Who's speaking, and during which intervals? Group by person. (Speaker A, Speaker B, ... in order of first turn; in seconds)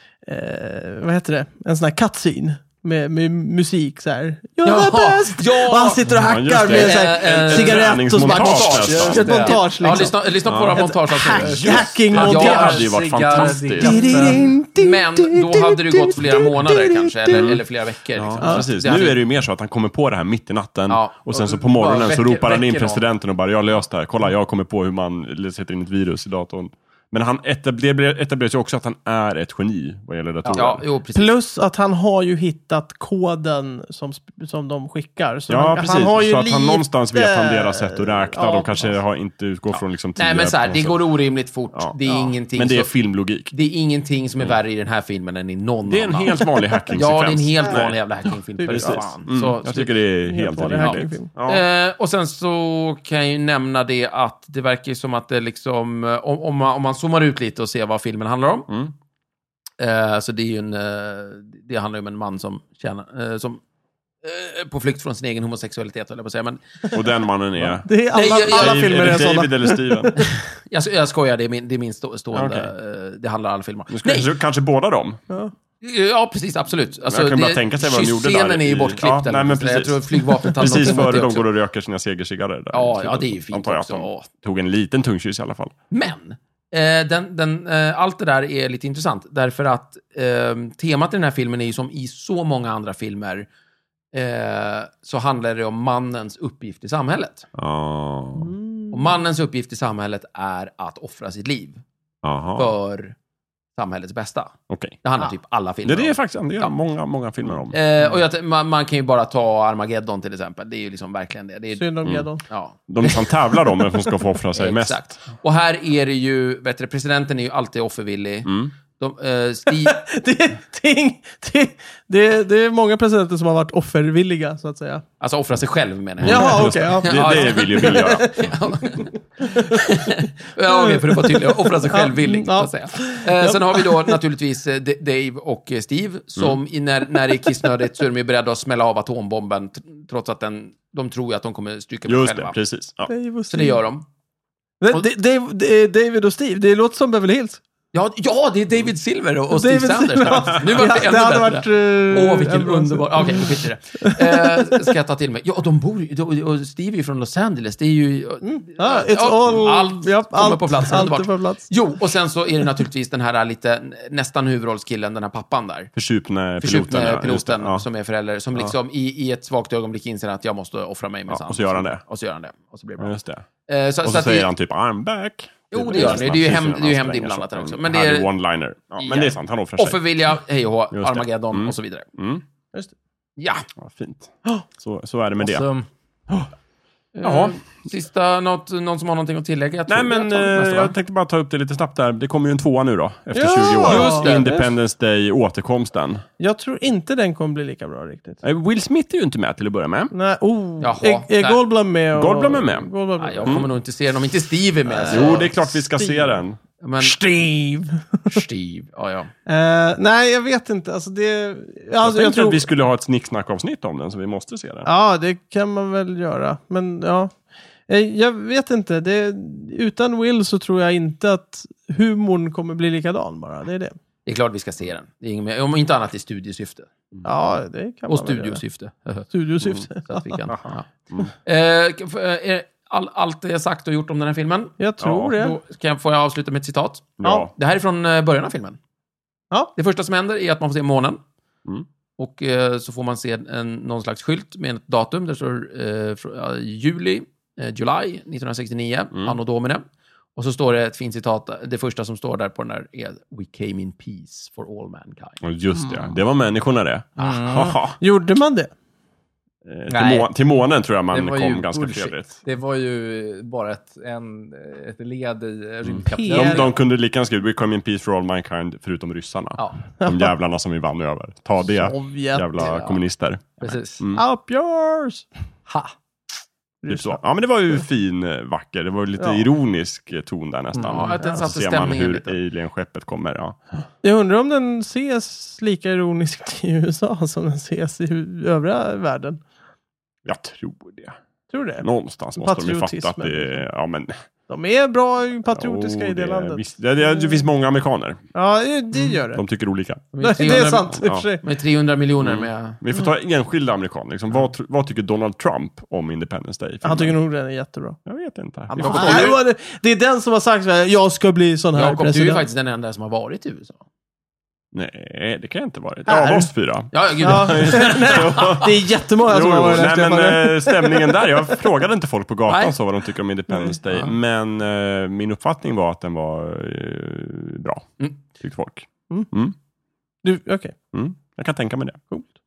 Speaker A: 0.2-12.7, 13.8-17.5, 31.1-39.0, 42.0-42.3, 48.6-49.1, 50.2-51.3, 67.8-70.2, 80.6-81.0, 98.4-99.2, 111.8-112.4, 119.7-125.0, 126.2-134.2, 143.1-143.8, 144.8-147.6, 149.5-154.9, 158.4-161.7, 193.3-194.7, 196.4-198.4, 200.1-203.6, 204.9-206.3, 207.0-208.4, 209.5-212.7, 214.8-217.3, 217.9-223.9, 227.2-228.6, 229.3-230.4, 234.8-235.6, 258.0-258.7, 266.0-266.7, 270.0-270.3, 271.7-272.8, 274.1-275.3, 276.8-277.2, 279.2-279.4, 284.0-289.4, 291.5-291.9, 292.4-293.6, 294.5-297.4, 298.3-299.4, 300.2-301.4, 306.8-308.0, 308.8-312.4, 316.1-316.5, 317.2-321.3, 323.5-323.8, 330.2-330.7
Speaker B: 4.6-6.0, 6.6-12.9, 14.7-19.2, 20.9-21.2, 30.5-31.3, 39.7-50.1, 50.7-58.7, 59.8-63.6, 64.2-66.6, 68.1-69.0, 70.2-74.3, 75.8-81.5, 82.7-84.3, 85.9-93.5, 94.1-97.5, 98.9-101.8, 102.5-103.1, 103.8-106.7, 107.7-111.8, 112.4-113.3, 114.5-120.0, 125.2-142.6, 143.5-144.0, 147.9-165.9, 166.6-173.1, 173.7-174.5, 175.7-178.3, 179.0-182.1, 183.4-183.6, 187.1-190.9, 193.8-194.6, 200.8-201.6, 203.2-205.5, 206.8-207.2, 208.3-209.3, 224.2-226.9, 228.1-229.3, 230.0-234.7, 235.3-238.8, 239.8-241.2, 242.2-249.8, 250.3-255.4, 257.2-257.5, 280.8-282.4, 300.1-302.8, 308.8-309.4, 311.7-313.8, 316.9-318.7, 322.5-322.7
Speaker C: 6.2-9.5, 10.4-10.8, 11.5-14.2, 17.3-17.6, 18.1-30.8, 35.5-41.0, 42.5-43.5, 45.9-51.6, 58.7-58.9, 66.9-70.3, 72.3-72.7, 73.9-75.2, 77.1-85.7, 97.5-98.5, 102.2-102.7, 104.7-105.0, 105.8-107.8, 112.9-115.2, 118.5-118.7, 126.2-128.5, 142.1-143.1, 165.9-167.8, 171.3-172.0, 173.0-173.4, 174.0-180.0, 180.9-182.4, 183.8-185.7, 187.2-187.6, 189.9-196.2, 198.4-200.1, 202.1-202.9, 205.1-206.6, 212.0-214.9, 235.0-235.3, 237.2-237.5, 255.4-258.0, 259.6-262.4, 265.8-274.2, 276.9-283.6, 290.2-291.1, 291.8-294.1, 295.5-298.2, 299.3-301.2, 302.2-307.1, 308.1-309.3, 314.7-329.5, 330.9-332.0
Speaker D: 8.6-9.6, 11.1-14.5, 21.3-23.0, 185.4-185.9, 257.2-257.8, 259.9-260.3, 261.1-266.7, 272.6-273.0, 273.6-274.0, 275.7-275.9, 280.7-281.0